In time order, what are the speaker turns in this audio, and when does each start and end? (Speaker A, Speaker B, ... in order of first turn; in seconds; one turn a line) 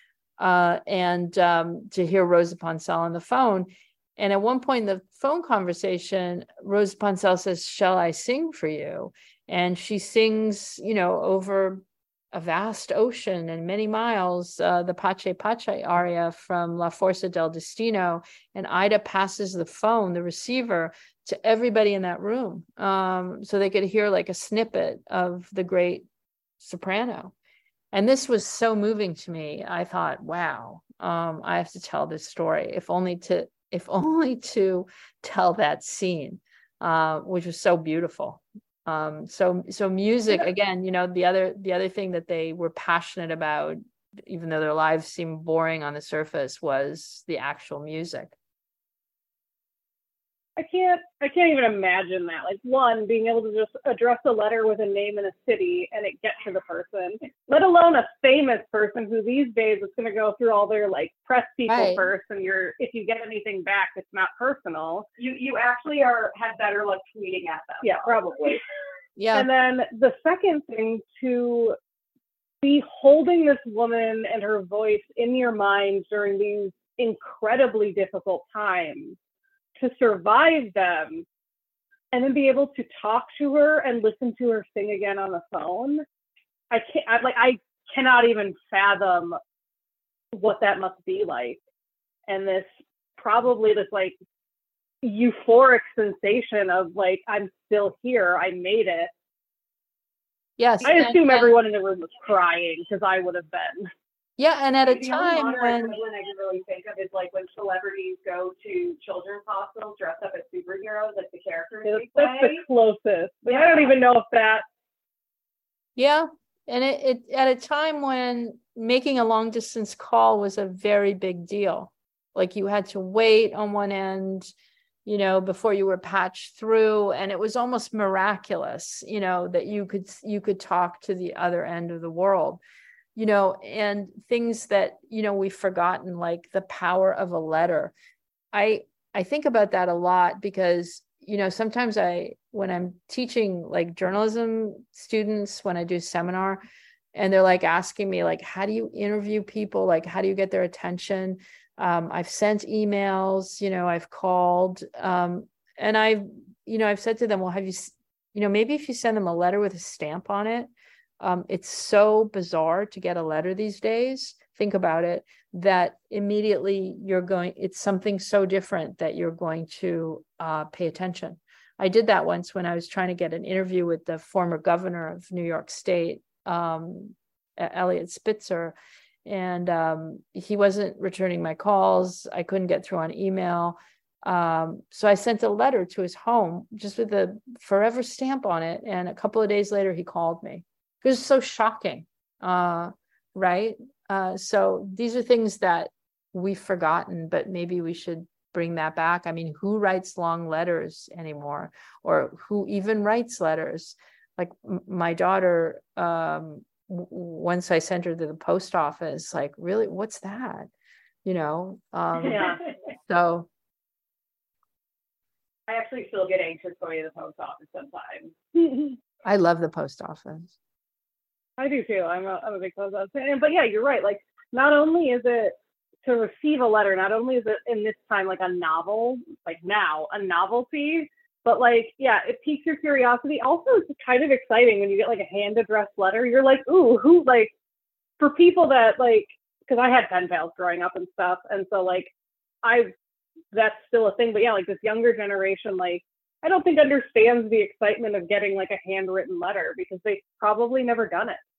Speaker A: 0.4-26.1
Speaker A: 26.6-27.3
Speaker A: 27.9-48.3
Speaker B: 50.6-65.1
Speaker A: 61.7-62.1
Speaker C: 65.2-68.5
Speaker B: 67.8-68.6
Speaker A: 69.2-69.5
Speaker B: 69.3-71.8
Speaker B: 72.6-79.2
Speaker B: 79.8-81.2
Speaker B: 82.1-86.0
Speaker B: 86.7-89.4
Speaker B: 90.3-91.6
Speaker B: 92.3-94.2
Speaker B: 95.0-99.1
Speaker A: 100.6-101.6
Speaker B: 100.8-103.9
Speaker A: 104.4-106.0
Speaker C: 104.9-112.6
Speaker B: 111.8-114.6
Speaker C: 113.5-114.0
Speaker A: 116.0-124.5
Speaker A: 125.0-132.6
Speaker A: 133.2-137.9
Speaker A: 138.5-146.6
Speaker A: 147.1-210.7
Speaker A: 211.2-213.5
Speaker C: 212.3-212.5
Speaker C: 215.7-218.4
Speaker A: 219.2-220.6
Speaker B: 221.6-237.5
Speaker B: 238.2-242.1
Speaker B: 242.6-242.9
Speaker B: 243.5-251.4